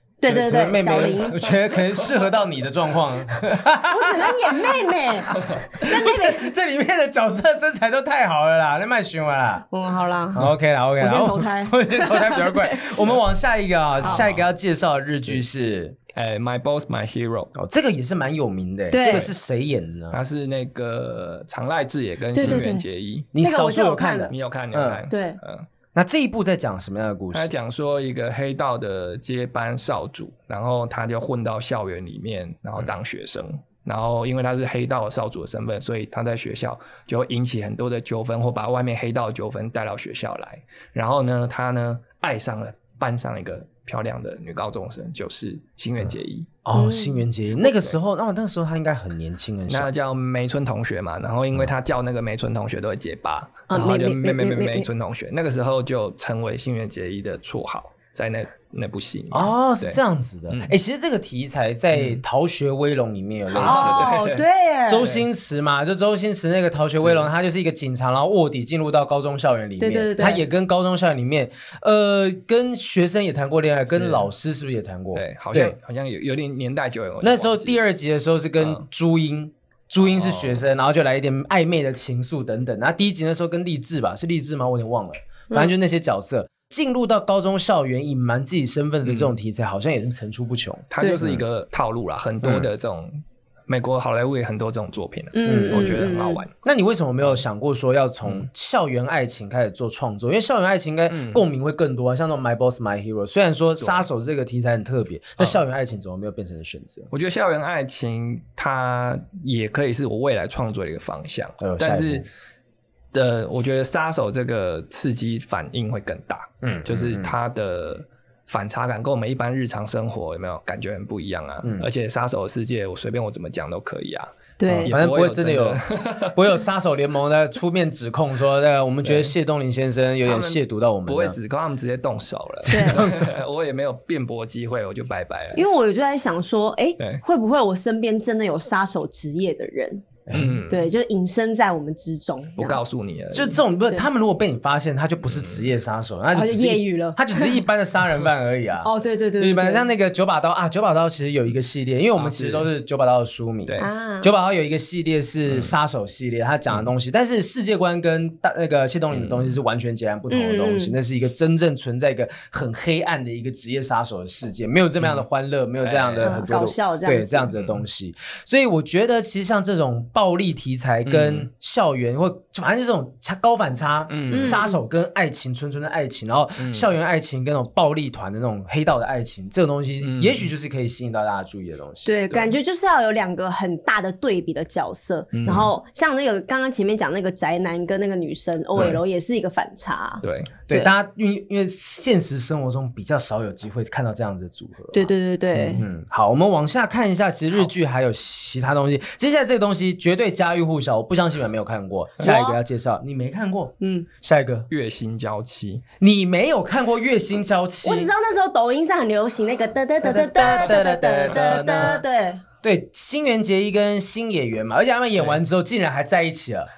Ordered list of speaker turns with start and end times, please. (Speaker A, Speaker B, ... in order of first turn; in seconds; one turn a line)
Speaker A: 0.2-1.4
Speaker B: 0.3-9.7
Speaker C: 0.8-2.2
Speaker A: 3.8-6.4
Speaker A: 9.7-13.0
Speaker B: 10.3-15.9
Speaker C: 14.0-14.5
Speaker C: 16.1-17.5
Speaker B: 17.5-20.2
Speaker A: 18.9-19.3
Speaker C: 19.0-19.3
Speaker C: 20.1-23.3
Speaker A: 22.3-22.8
Speaker B: 22.4-22.7
Speaker B: 23.3-25.1
Speaker A: 23.4-24.3
Speaker C: 24.3-25.7
Speaker A: 25.1-25.4
Speaker B: 25.9-27.5
Speaker C: 27.3-46.5
Speaker B: 46.6-49.9
Speaker A: 46.7-47.2
Speaker C: 49.7-60.7
Speaker A: 53.7-54.9
Speaker B: 59.3-64.2
Speaker C: 61.9-62.2
Speaker C: 63.5-64.4
Speaker A: 63.5-65.1
Speaker B: 64.9-75.8
Speaker C: 65.0-65.3
Speaker C: 67.0-67.3
Speaker A: 69.8-70.4
Speaker C: 73.9-74.3
Speaker C: 75.1-77.8
Speaker B: 77.2-91.4
Speaker C: 80.1-80.6
Speaker C: 89.0-89.3
Speaker C: 90.9-96.5
Speaker A: 95.3-96.4
Speaker B: 95.4-96.0
Speaker B: 96.6-107.1
Speaker C: 101.1-101.4
Speaker C: 107.1-112.2
Speaker B: 111.6-112.2
Speaker C: 113.1-126.5
Speaker B: 116.6-117.3
Speaker A: 124.6-124.9
Speaker B: 124.8-125.8
Speaker B: 126.3-131.4
Speaker C: 129.0-129.3
Speaker C: 130.2-135.6
Speaker B: 132.6-133.4
Speaker A: 132.7-133.0
Speaker A: 135.5-140.1
Speaker B: 140.3-140.6
Speaker C: 140.3-140.9
Speaker A: 140.7-142.8
Speaker C: 142.6-143.6
Speaker B: 143.3-182.1
Speaker C: 145.3-145.6
Speaker A: 146.3-147.6
Speaker A: 148.8-149.9
Speaker C: 152.2-152.7
Speaker A: 153.8-154.3
Speaker C: 159.2-159.4
Speaker A: 160.3-160.9
Speaker C: 165.8-166.4
Speaker A: 166.2-167.5
Speaker C: 171.0-171.5
Speaker C: 174.1-174.6
Speaker A: 174.3-174.8
Speaker C: 176.6-176.9
Speaker C: 180.0-180.5
Speaker A: 182.0-190.9
Speaker C: 185.3-185.7
Speaker C: 190.2-190.5
Speaker B: 190.7-195.1
Speaker A: 194.9-195.8
Speaker B: 195.8-204.7
Speaker A: 202.2-202.6
Speaker A: 203.8-204.1
Speaker C: 204.7-205.8
Speaker B: 206.0-208.1
Speaker A: 207.8-212.4
Speaker B: 210.0-212.0
Speaker C: 211.3-211.9
Speaker B: 212.6-216.7